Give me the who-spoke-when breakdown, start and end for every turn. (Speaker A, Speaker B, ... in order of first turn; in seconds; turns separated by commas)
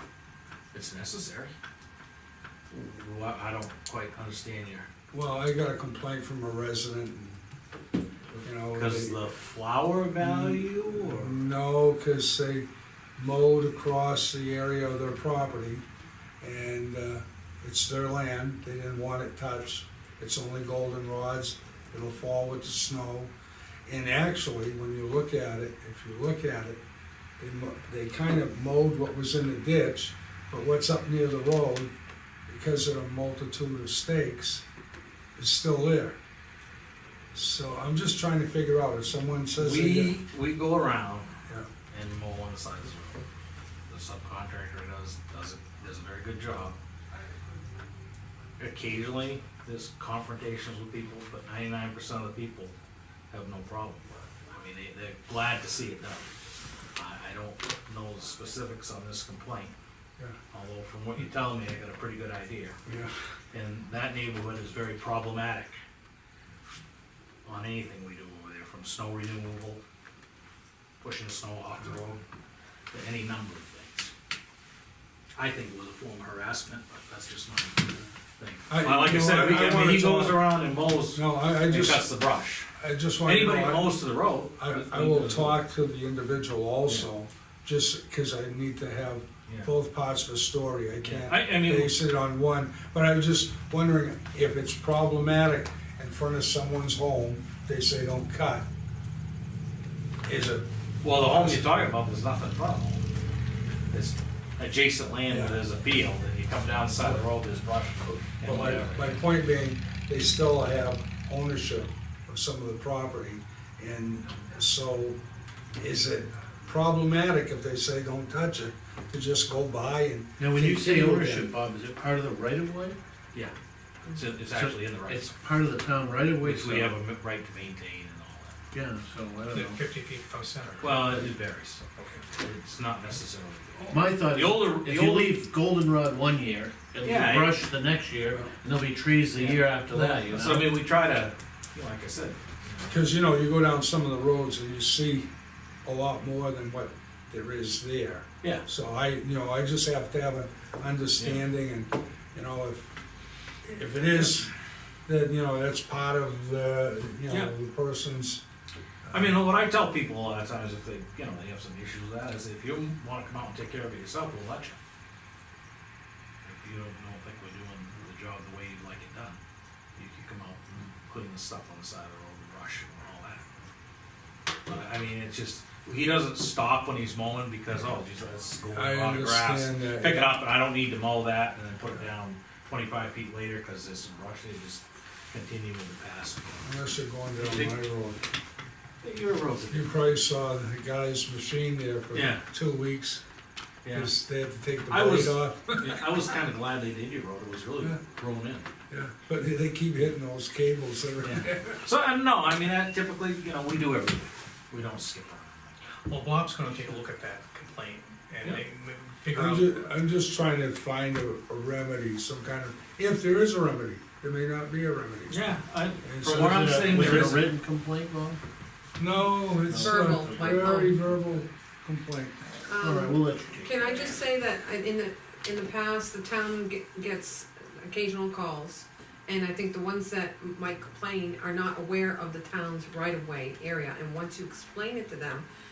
Speaker A: 0.7-1.5, Speaker A: 2.7-4.9, Speaker B: 5.1-7.4, Speaker A: 8.3-11.5, Speaker B: 8.4-9.2, Speaker B: 10.2-12.7, Speaker B: 13.2-15.8, Speaker B: 16.4-23.3, Speaker B: 23.9-26.8, Speaker B: 27.4-31.9, Speaker B: 32.5-34.6, Speaker B: 35.4-36.2, Speaker B: 37.3-40.1, Speaker A: 39.5-41.3, Speaker A: 41.9-43.2, Speaker A: 43.9-46.8, Speaker A: 48.6-52.7, Speaker A: 53.3-56.3, Speaker A: 57.0-59.7, Speaker A: 60.5-62.8, Speaker B: 62.9-63.1, Speaker A: 63.5-65.8, Speaker A: 67.4-69.8, Speaker A: 71.0-72.2, Speaker A: 72.9-74.1, Speaker A: 75.4-82.7, Speaker B: 78.7-80.5, Speaker B: 81.1-82.1, Speaker B: 82.8-84.0, Speaker A: 83.2-85.6, Speaker B: 84.6-98.7, Speaker A: 91.0-92.0, Speaker B: 100.2-101.7, Speaker A: 101.0-103.0, Speaker A: 103.9-109.2, Speaker B: 105.3-105.6, Speaker B: 108.4-115.2, Speaker B: 115.8-121.5, Speaker C: 120.4-123.0, Speaker A: 124.1-125.3, Speaker C: 124.5-127.0, Speaker A: 126.3-128.6, Speaker C: 128.7-129.8, Speaker D: 129.5-131.2, Speaker A: 130.8-135.4, Speaker C: 133.9-140.7, Speaker A: 137.0-137.7, Speaker A: 139.3-142.9, Speaker B: 139.9-140.2, Speaker B: 142.9-145.3, Speaker B: 145.8-152.9, Speaker A: 151.2-151.4, Speaker B: 153.6-154.5, Speaker B: 155.1-158.4, Speaker A: 159.1-164.8, Speaker A: 166.4-169.4, Speaker A: 169.9-173.5, Speaker A: 174.7-186.7, Speaker B: 178.7-180.3, Speaker B: 186.6-188.2, Speaker A: 187.4-187.7, Speaker A: 189.0-189.9, Speaker B: 189.7-193.2, Speaker A: 192.1-192.4, Speaker A: 193.8-194.1, Speaker B: 193.9-196.0, Speaker A: 194.9-198.7, Speaker B: 198.9-201.8, Speaker A: 201.2-205.8, Speaker D: 206.1-209.8, Speaker B: 209.3-215.5, Speaker A: 215.3-217.4, Speaker B: 216.0-217.3, Speaker C: 216.2-218.4, Speaker B: 219.0-222.4, Speaker C: 219.6-221.2, Speaker E: 219.8-221.0, Speaker E: 222.7-235.4, Speaker C: 222.8-224.1